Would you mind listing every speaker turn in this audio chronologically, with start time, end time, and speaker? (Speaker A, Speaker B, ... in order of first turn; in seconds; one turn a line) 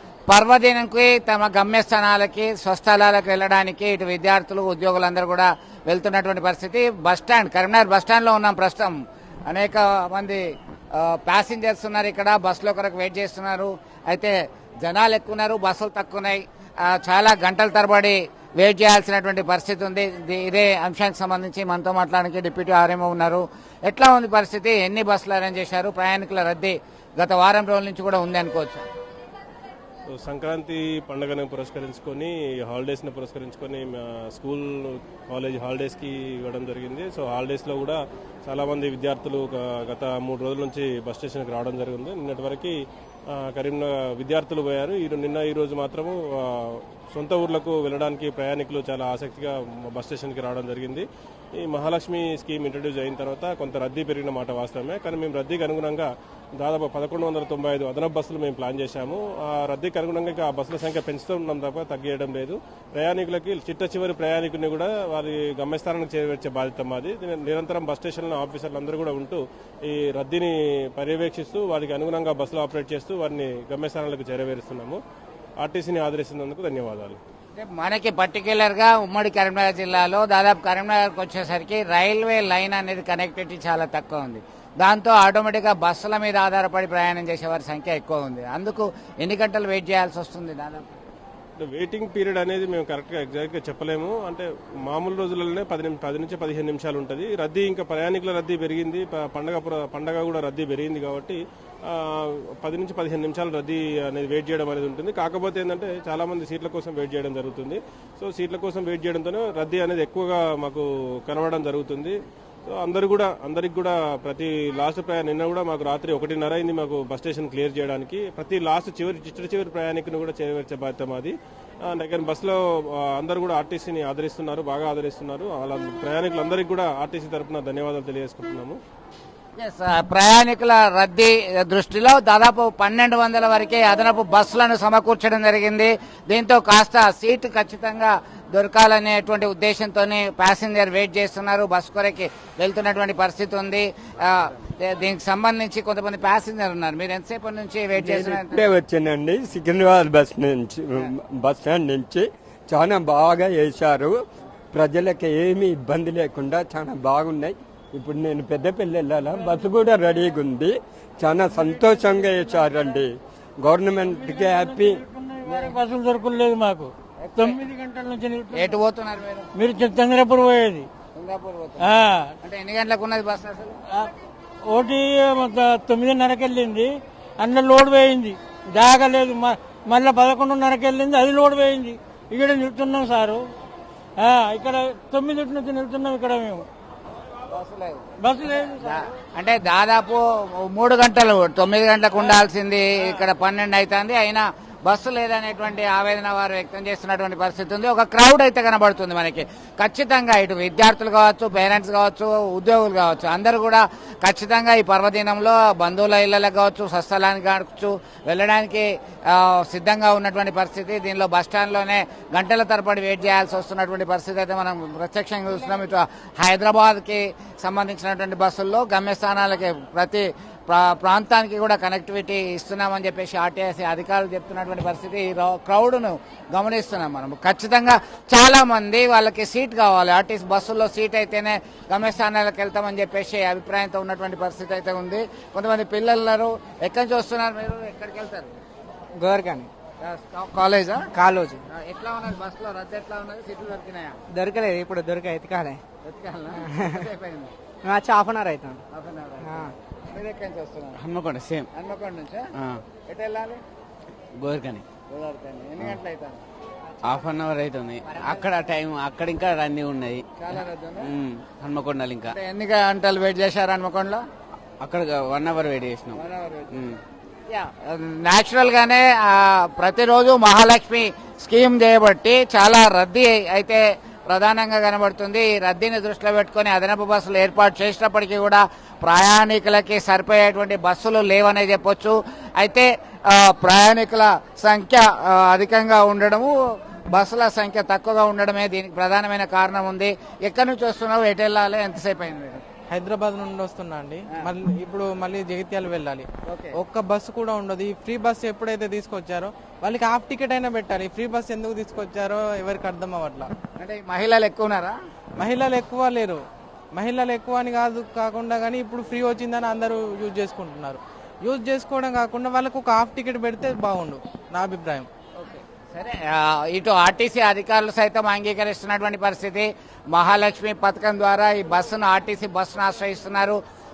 Speaker A: 0.3-8.9
Speaker A: 9.5-10.4
Speaker A: 10.9-28.8
Speaker B: 30.2-42.7
Speaker B: 43.3-51.0
Speaker B: 51.6-75.0
Speaker B: 75.6-77.2
Speaker A: 77.5-90.9
Speaker B: 91.6-112.1
Speaker B: 112.7-121.3
Speaker B: 121.9-122.6
Speaker B: 123.2-128.8
Speaker A: 129.6-148.6
Speaker C: 148.0-154.2
Speaker C: 154.7-165.0
Speaker D: 164.2-168.7
Speaker A: 165.4-165.8
Speaker A: 167.2-167.6
Speaker A: 168.5-169.5
Speaker D: 169.5-170.9
Speaker A: 171.1-173.8
Speaker D: 171.8-172.3
Speaker D: 174.7-183.4
Speaker D: 184.2-186.7
Speaker A: 187.5-238.5
Speaker D: 188.2-189.0
Speaker E: 239.2-239.7
Speaker A: 240.0-241.1
Speaker E: 241.1-241.6
Speaker A: 241.7-244.2
Speaker E: 244.3-245.8
Speaker A: 246.0-247.5
Speaker E: 246.6-247.0
Speaker E: 247.8-248.8
Speaker A: 248.9-251.0
Speaker E: 249.4-249.7
Speaker F: 251.0-251.6
Speaker A: 251.7-252.5
Speaker A: 253.1-253.6
Speaker F: 254.4-254.8
Speaker A: 255.1-256.4
Speaker F: 257.0-260.2
Speaker E: 258.1-258.4
Speaker A: 260.4-261.1
Speaker F: 261.0-262.3
Speaker A: 262.3-264.2
Speaker F: 264.8-266.2
Speaker A: 266.1-266.7
Speaker A: 267.5-286.5
Speaker A: 287.1-292.6
Speaker G: 292.9-303.5
Speaker A: 296.5-296.8
Speaker A: 303.8-304.9
Speaker G: 305.4-306.4
Speaker G: 306.9-315.1
Speaker A: 315.4-323.6